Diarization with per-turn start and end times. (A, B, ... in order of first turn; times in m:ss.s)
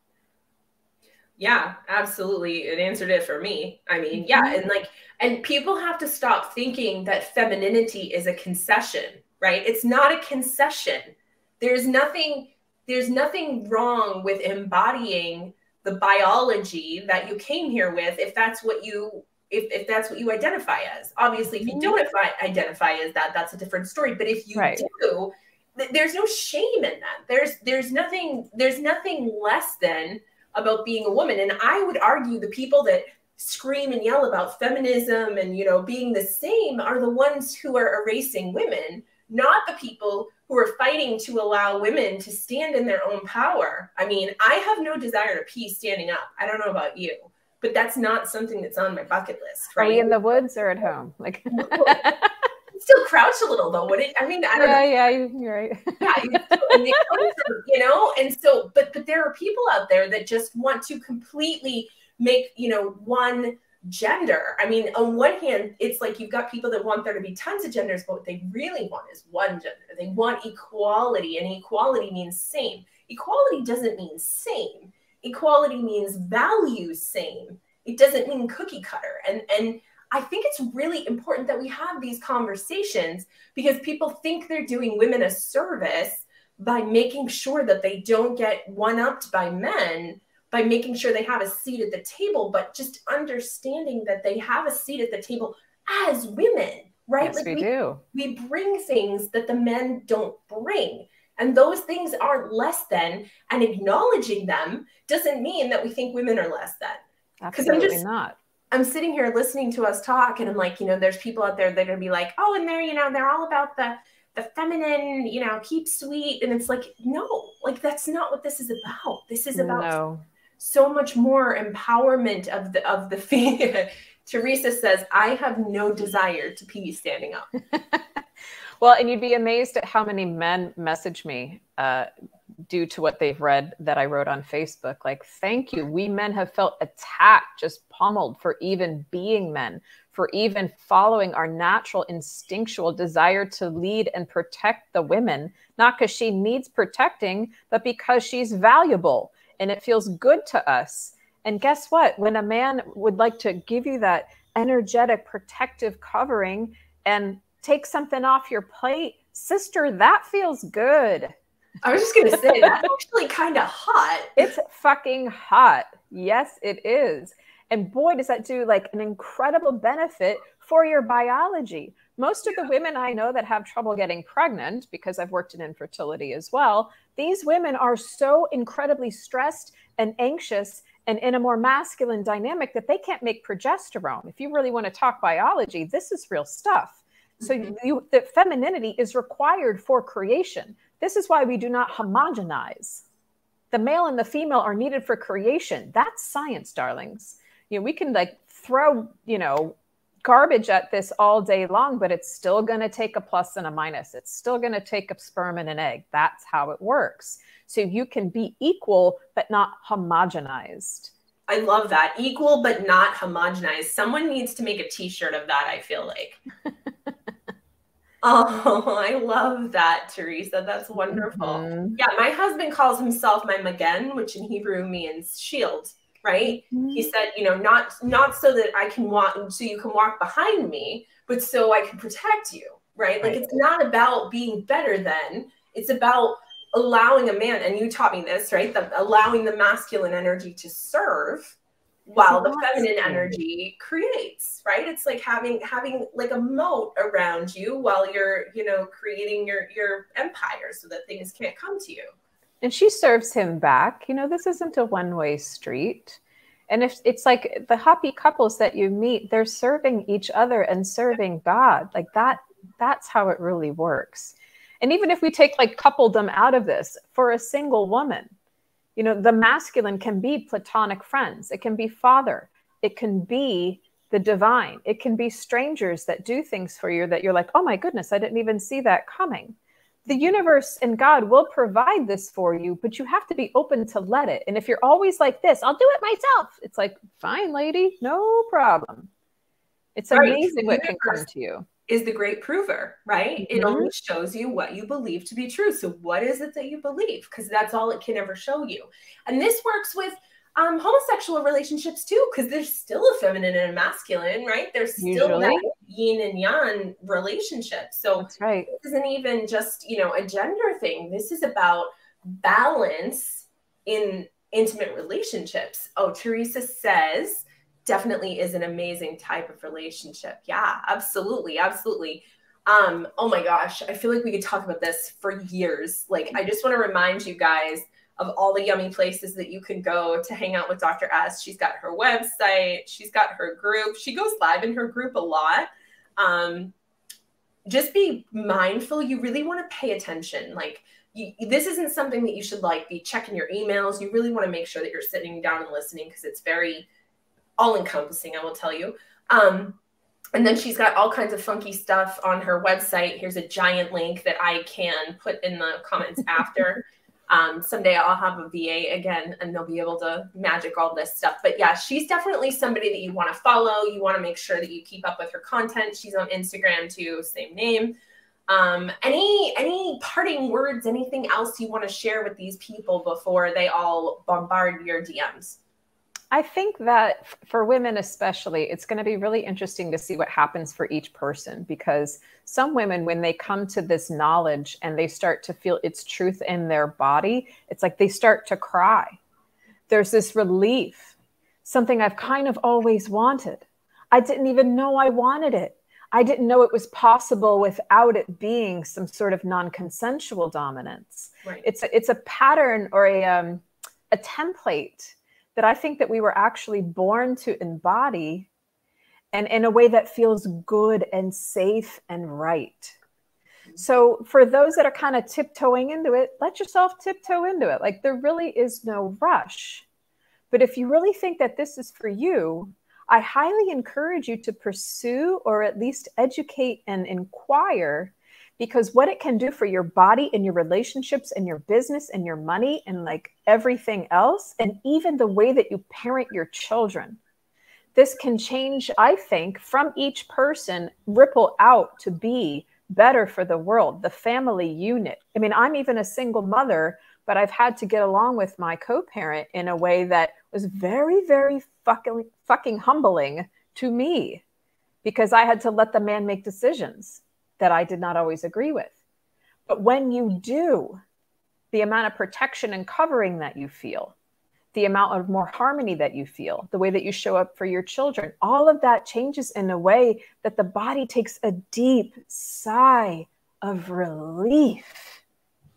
0:01.4-0:50.2 A
0:04.1-0:04.6 B
0:21.6-0:22.0 B
0:24.5-0:24.8 B
0:49.8-0:52.3 B
0:51.5-0:52.1 A
0:52.7-0:54.8 A
0:54.5-0:57.3 B
0:56.0-1:48.0 A
1:37.2-1:38.0 B
1:47.4-1:48.4 B
1:48.7-1:59.9 A
1:59.5-2:00.2 B
2:00.6-2:07.5 A
2:07.7-2:08.2 B
2:08.8-2:12.1 B
2:12.6-2:41.3 B
2:41.8-2:44.4 A
2:44.4-3:13.0 B
3:07.4-3:07.7 A
3:13.7-3:31.1 B
3:31.5-3:36.4 A
3:38.2-4:12.1 A
3:41.1-3:42.0 B
3:46.4-3:47.1 B
3:53.2-3:53.5 B
4:02.2-4:03.3 B
4:12.6-4:28.3 B
4:29.0-4:49.1 B
4:49.9-4:51.7 B
4:50.1-4:51.2 A
4:51.9-5:36.7 A
4:53.4-4:53.9 B
5:05.0-5:05.7 B
5:08.2-5:08.7 B
5:37.6-5:46.9 A
5:47.6-5:49.8 A
5:50.4-6:08.0 A
6:08.5-6:15.6 A
6:16.3-6:29.2 B
6:29.9-6:31.1 B
6:31.6-6:48.5 B
6:49.3-6:53.0 B
6:53.8-6:59.8 B
7:00.5-7:17.2 B
7:17.9-7:34.4 B
7:35.0-7:39.0 B
7:39.7-7:41.0 B
7:41.7-7:44.1 B
7:44.7-7:55.2 B